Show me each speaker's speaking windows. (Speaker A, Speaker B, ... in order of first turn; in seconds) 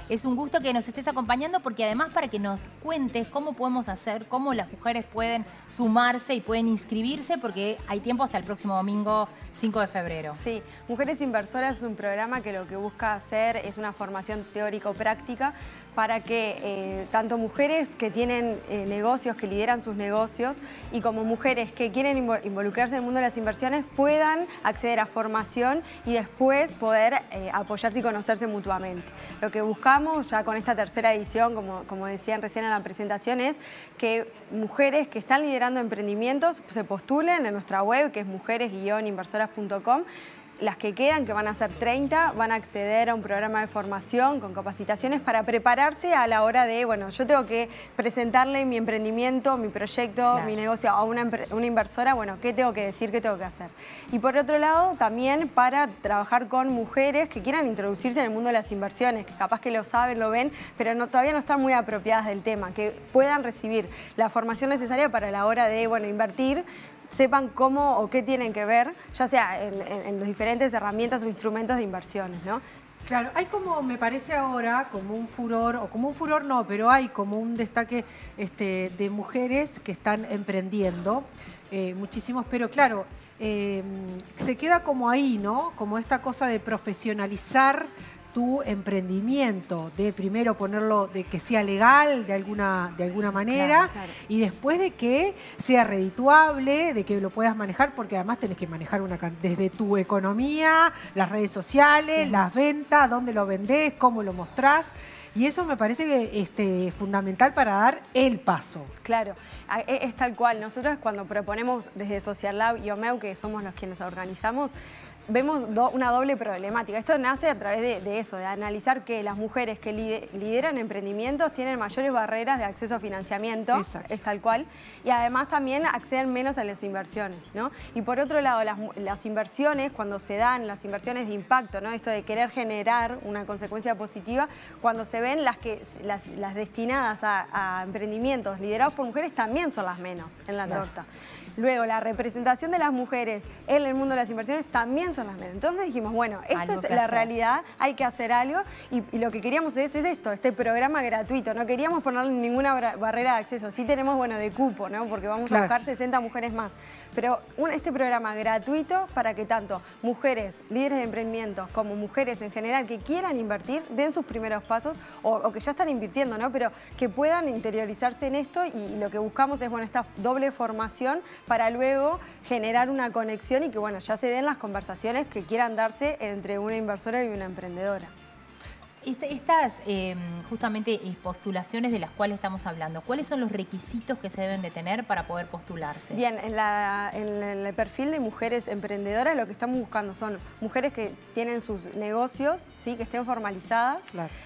Speaker A: 0.1-10.4, 146.5-147.3, 179.0-186.2
Speaker B: 10.4-40.0, 40.6-72.6, 93.5-94.2, 109.0-114.7, 115.3-141.1, 141.6-178.1, 186.1-194.1
Speaker C: 73.1-108.9, 123.7-124.1, 155.5-155.7